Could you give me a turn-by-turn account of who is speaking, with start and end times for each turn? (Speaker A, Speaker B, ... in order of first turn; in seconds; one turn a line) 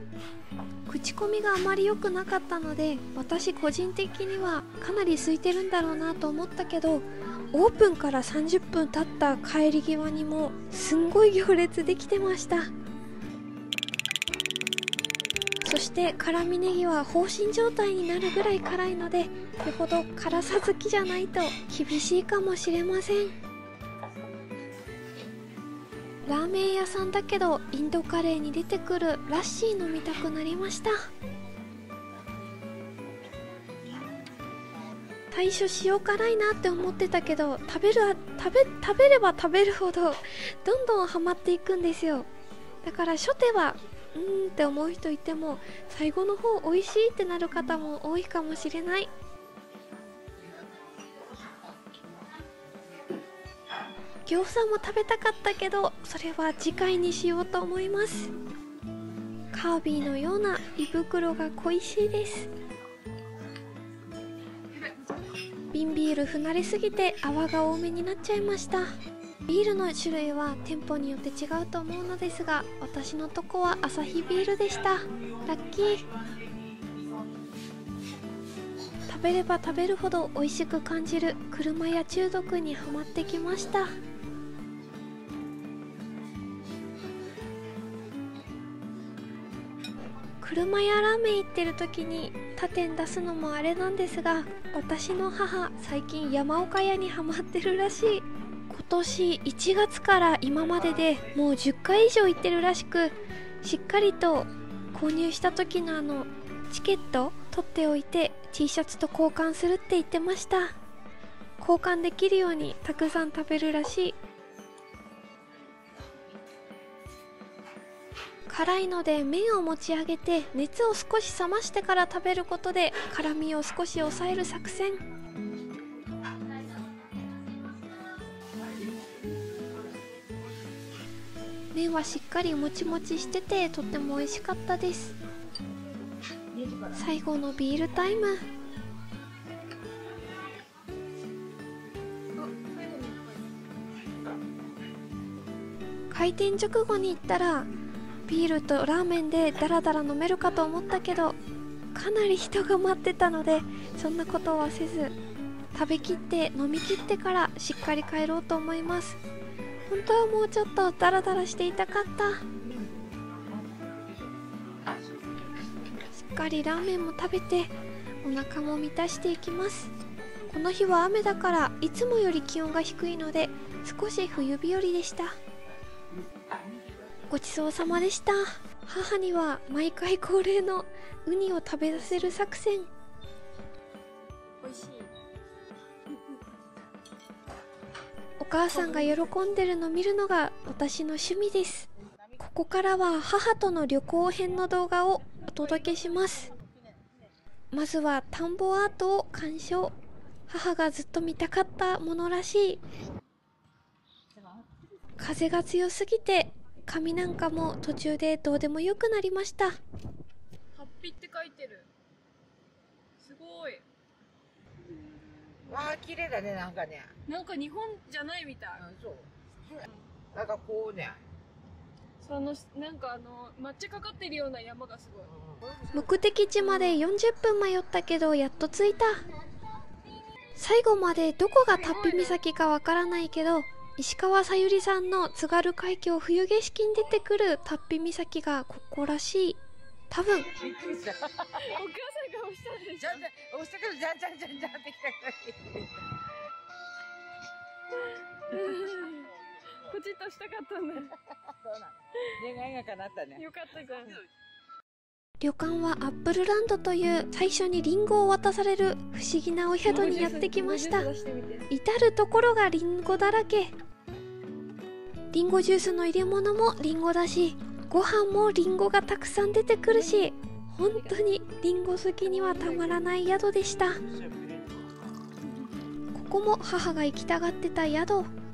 Speaker A: 0.9-12.7
Speaker A: 15.6-23.3
Speaker A: 26.2-30.9
Speaker A: 35.3-42.3
Speaker A: 42.8-49.1
Speaker A: 54.3-58.3
Speaker A: 59.5-62.5
Speaker A: 65.7-68.9
Speaker A: 69.5-76.1
Speaker A: 79.1-83.9
Speaker A: 90.4-110.8
Speaker A: 111.6-114.2
Speaker A: 118.5-125.0
Speaker A: 131.7-135.2
Speaker A: 136.9-138.4
Speaker B: 142.3-143.5
Speaker A: 146.1-147.7
Speaker A: 148.3-151.3
Speaker A: 151.9-155.2
Speaker A: 155.7-159.2
Speaker A: 159.9-162.4
Speaker A: 166.1-167.7
Speaker A: 168.2-169.9
Speaker A: 170.5-175.4
Speaker A: 177.3-182.9
Speaker B: 184.6-185.1
Speaker A: 188.4-196.5
Speaker B: 188.7-189.2
Speaker A: 197.7-199.9
Speaker A: 200.5-202.8
Speaker A: 205.2-209.8
Speaker B: 210.7-211.9
Speaker B: 213.2-213.8
Speaker B: 215.1-215.9
Speaker C: 215.7-217.1
Speaker B: 217.3-218.8
Speaker C: 218.8-219.3
Speaker C: 220.3-221.2
Speaker B: 222.2-225.3
Speaker A: 225.9-229.3
Speaker B: 226.6-227.0
Speaker A: 230.6-240.5
Speaker B: 231.8-232.4
Speaker C: 240.5-241.4
Speaker B: 241.5-243.2
Speaker C: 243.0-245.8
Speaker B: 248.1-249.3
Speaker B: 249.8-251.1
Speaker C: 252.4-253.4
Speaker B: 253.3-254.2
Speaker A: 255.4-261.1
Speaker B: 259.9-261.7
Speaker A: 261.7-263.7
Speaker A: 265.3-274.0
Speaker B: 269.9-270.3
Speaker B: 270.9-271.4
Speaker B: 272.2-273.0
Speaker A: 276.1-278.3